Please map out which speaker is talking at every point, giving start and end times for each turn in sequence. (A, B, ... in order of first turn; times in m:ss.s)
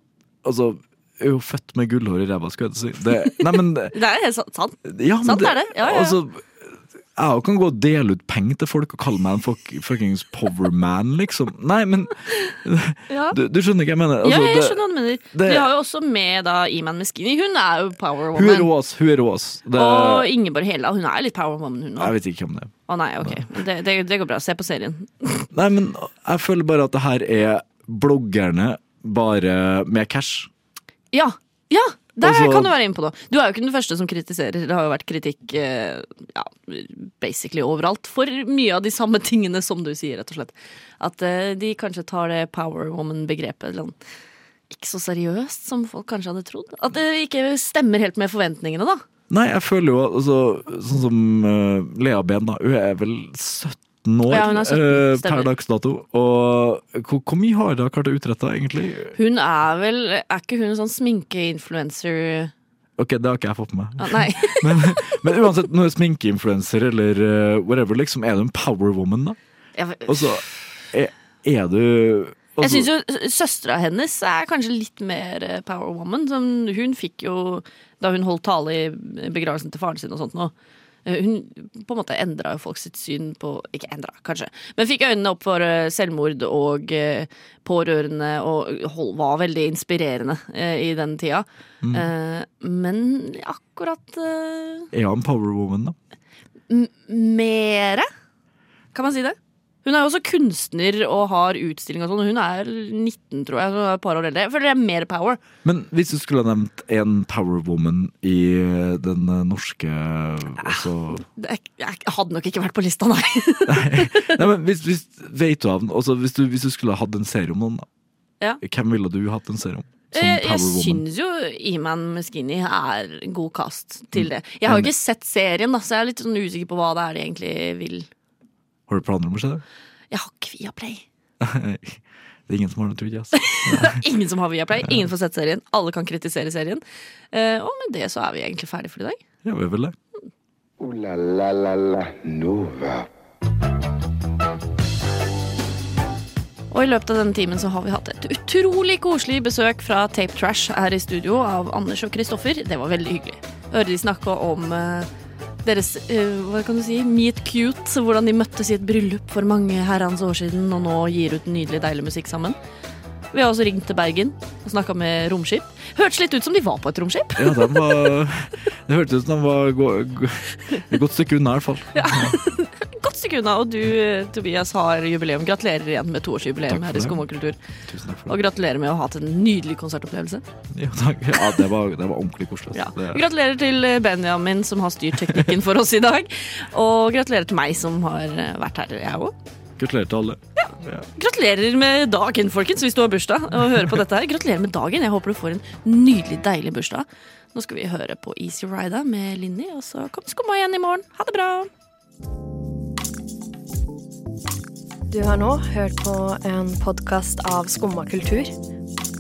0:00.4-0:04.0 A
0:03.9-0:06.2 B
0:04.8-0:15.7 A
0:13.1-0:13.4 B
0:14.2-0:18.7 B
0:18.3-0:20.3 A
0:19.7-0:22.1 B
0:22.0-0:23.5 A
0:22.9-0:25.5 B
0:25.5-0:30.5 A
0:31.1-0:44.0 B
0:32.2-0:32.7 A
0:44.7-0:49.0 B
0:49.3-0:59.2 A
0:54.3-0:55.5 B
0:59.2-1:02.5 B
1:03.0-1:09.4 A
1:04.0-1:05.4 B
1:09.8-1:10.4 B
1:10.1-1:12.9 A
1:12.6-1:20.5 B
1:21.1-1:34.9 B
1:31.8-1:32.1 A
1:34.9-1:36.0 A
1:36.7-1:38.1 B
1:38.9-1:45.4 B
1:45.6-1:51.2 A
1:50.6-1:54.4 B
1:53.7-1:57.9 A
1:58.6-2:01.0 A
2:00.1-2:08.1 B
2:04.1-2:04.9 A
2:08.9-2:09.6 A
2:10.1-2:11.0 B
2:11.4-2:14.0 A
2:13.5-2:19.2 B
2:19.4-2:20.0 A
2:20.8-2:23.1 C
2:26.7-2:35.1 B
2:35.6-2:42.6 B
2:43.3-2:47.9 B
2:47.4-2:52.4 A
2:52.0-2:57.6 B
2:56.6-2:57.2 A
2:57.9-2:58.4 A
2:58.3-3:00.4 B
3:00.7-3:03.2 A
3:02.7-3:09.3 B
3:09.8-3:11.1 A
3:10.6-3:21.7 B
3:25.1-3:28.6 D